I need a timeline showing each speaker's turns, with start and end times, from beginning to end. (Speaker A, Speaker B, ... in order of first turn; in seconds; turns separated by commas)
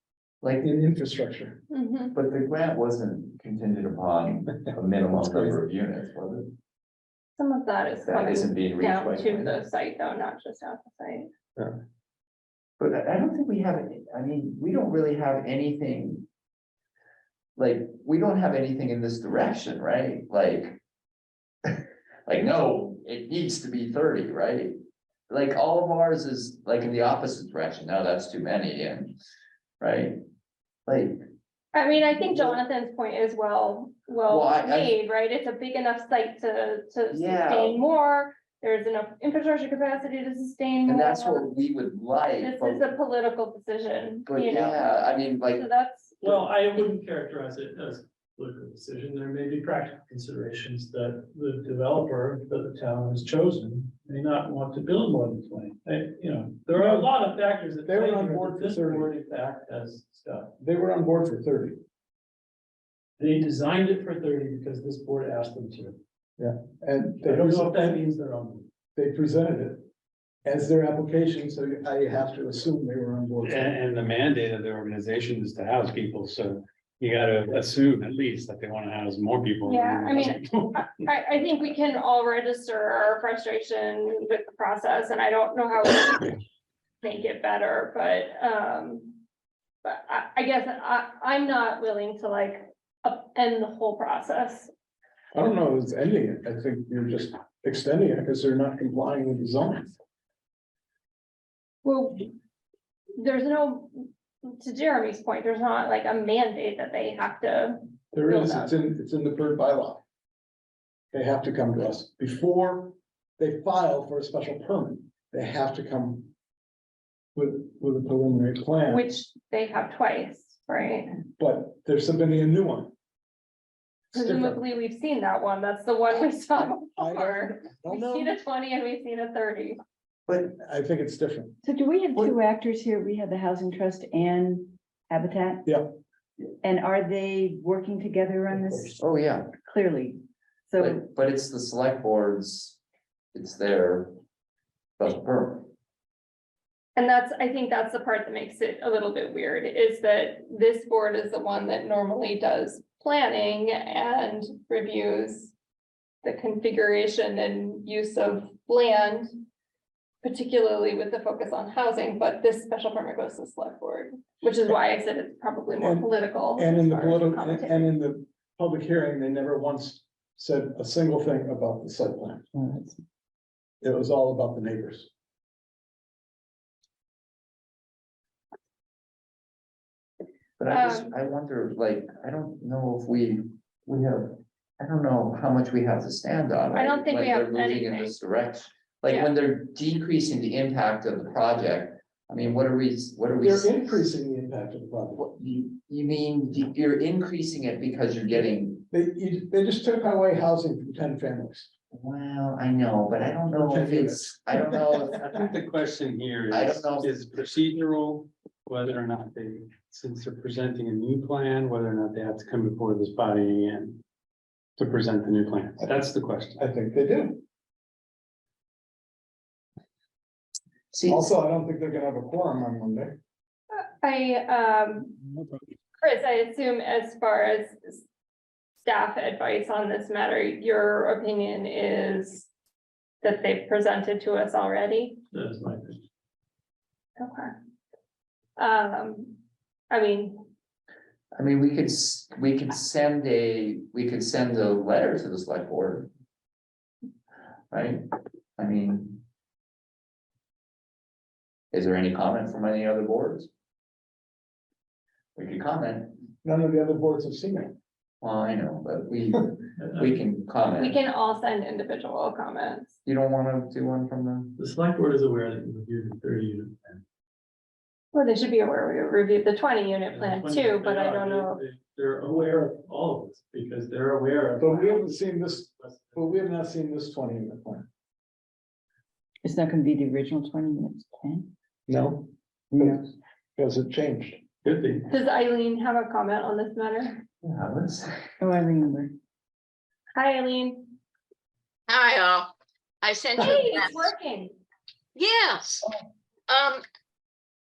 Speaker A: 0.4-0.7, Speaker B: 0.6-1.6, Speaker C: 1.7-2.1, Speaker A: 2.1-6.5, Speaker C: 7.4-11.3, Speaker A: 8.0-9.6, Speaker A: 12.8-16.3, Speaker A: 17.6-20.8, Speaker A: 21.7-24.7, Speaker A: 25.3-29.2, Speaker A: 29.8-30.2, Speaker A: 30.9-31.2, Speaker C: 31.7-41.5, Speaker A: 32.3-32.6, Speaker A: 34.3-35.0, Speaker A: 37.1-37.8, Speaker A: 40.9-42.9, Speaker C: 42.4-47.0, Speaker A: 44.3-45.7, Speaker D: 46.2-60.5, Speaker B: 56.7-57.1, Speaker B: 57.8-59.1, Speaker B: 60.6-61.8, Speaker D: 63.2-66.0, Speaker B: 66.4-68.0, Speaker D: 67.2-68.7, Speaker B: 69.0-69.8, Speaker B: 70.5-73.7, Speaker E: 73.4-81.1, Speaker C: 79.7-86.3, Speaker C: 87.0-89.2, Speaker C: 89.8-94.7, Speaker B: 95.3-100.0, Speaker C: 101.8-102.3, Speaker C: 103.2-108.8, Speaker B: 108.1-110.0, Speaker B: 111.1-116.3, Speaker B: 117.3-119.0, Speaker C: 118.9-121.2, Speaker B: 121.4-122.9, Speaker C: 124.1-129.8, Speaker B: 127.0-128.4, Speaker B: 130.4-131.6, Speaker F: 131.6-135.7, Speaker B: 135.7-135.9, Speaker F: 136.6-141.0, Speaker B: 138.5-138.9, Speaker A: 139.0-139.5, Speaker A: 140.8-142.8, Speaker A: 143.3-144.1, Speaker A: 145.0-145.7, Speaker C: 147.0-155.5, Speaker C: 156.2-159.4, Speaker C: 160.2-167.9, Speaker B: 165.8-172.5, Speaker F: 172.5-173.0, Speaker B: 173.8-175.1, Speaker A: 180.6-194.0, Speaker C: 180.7-181.1, Speaker C: 186.7-188.1, Speaker B: 193.4-195.2, Speaker A: 195.2-198.9, Speaker B: 198.9-201.7, Speaker A: 201.9-205.5, Speaker B: 203.5-205.2, Speaker E: 205.2-214.0, Speaker A: 206.5-207.2, Speaker E: 214.8-216.6, Speaker B: 215.8-216.0, Speaker B: 216.6-217.4, Speaker A: 220.9-221.3, Speaker B: 221.1-223.2, Speaker C: 223.7-225.2, Speaker B: 225.3-225.7, Speaker C: 226.0-228.0, Speaker C: 228.8-232.5, Speaker C: 233.2-235.2, Speaker D: 235.3-236.0, Speaker C: 237.2-237.5, Speaker C: 238.6-239.4, Speaker C: 239.9-240.5, Speaker A: 241.3-246.1, Speaker A: 247.7-248.0, Speaker A: 248.6-249.2, Speaker A: 251.7-253.5, Speaker A: 255.4-256.2, Speaker B: 256.4-257.8, Speaker A: 258.2-261.0, Speaker D: 259.8-260.2, Speaker C: 260.8-262.9, Speaker A: 263.1-264.6, Speaker D: 264.6-267.0, Speaker C: 268.1-271.6, Speaker D: 270.1-276.4, Speaker B: 274.6-277.9, Speaker F: 279.4-281.5, Speaker B: 281.9-284.4, Speaker F: 282.7-283.1, Speaker C: 285.1-287.2, Speaker A: 287.4-288.2, Speaker F: 288.4-289.1, Speaker C: 290.1-290.9, Speaker G: 291.9-294.1, Speaker C: 293.4-294.6, Speaker G: 295.1-295.9, Speaker G: 296.5-296.8